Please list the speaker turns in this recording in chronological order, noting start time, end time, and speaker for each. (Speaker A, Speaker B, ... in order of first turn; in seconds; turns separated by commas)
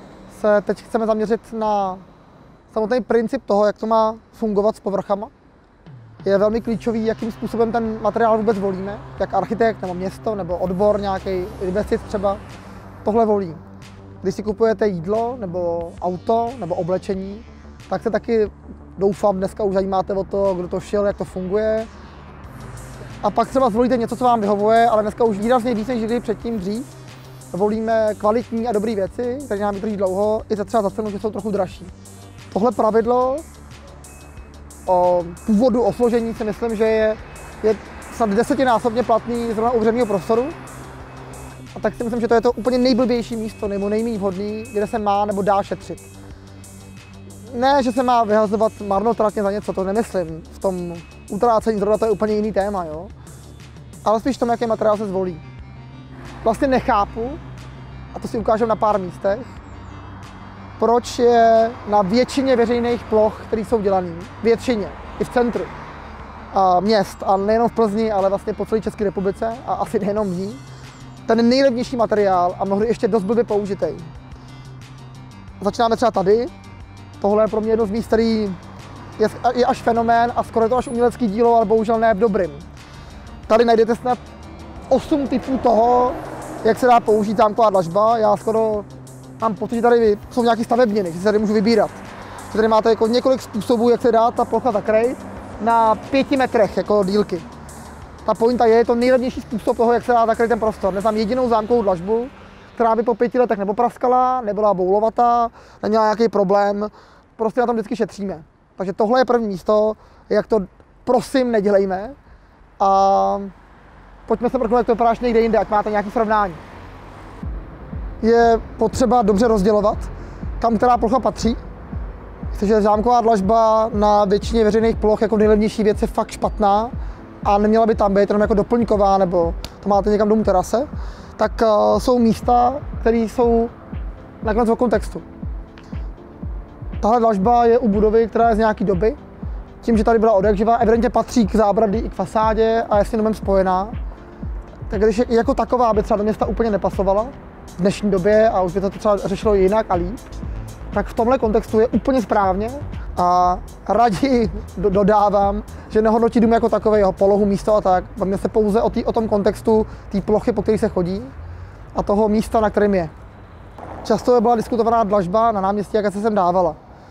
Speaker A: 0.3-2.0, Speaker A: 2.7-5.3, Speaker A: 6.2-12.4, Speaker A: 13.0-13.6, Speaker A: 14.2-21.9, Speaker A: 23.2-26.9, Speaker A: 27.5-31.9, Speaker A: 32.5-33.5, Speaker A: 34.9-40.6, Speaker A: 41.8-46.1, Speaker A: 47.5-53.1, Speaker A: 54.0-55.4, Speaker A: 56.4-57.4, Speaker A: 58.1-59.5, Speaker A: 60.8-65.7, Speaker A: 66.5-70.6, Speaker A: 71.3-74.1, Speaker A: 75.6-76.5, Speaker A: 77.2-78.6, Speaker A: 79.2-82.7, Speaker A: 83.5-84.2, Speaker A: 84.9-88.9, Speaker A: 89.4-97.5, Speaker A: 98.2-112.2, Speaker A: 112.8-113.5, Speaker A: 114.3-116.6, Speaker A: 118.2-121.6, Speaker A: 122.5-126.9, Speaker A: 127.4-133.7, Speaker A: 134.4-135.2, Speaker A: 137.0-139.2, Speaker A: 139.8-143.9, Speaker A: 144.9-150.2, Speaker A: 150.9-161.3, Speaker A: 161.9-163.1, Speaker A: 164.0-166.8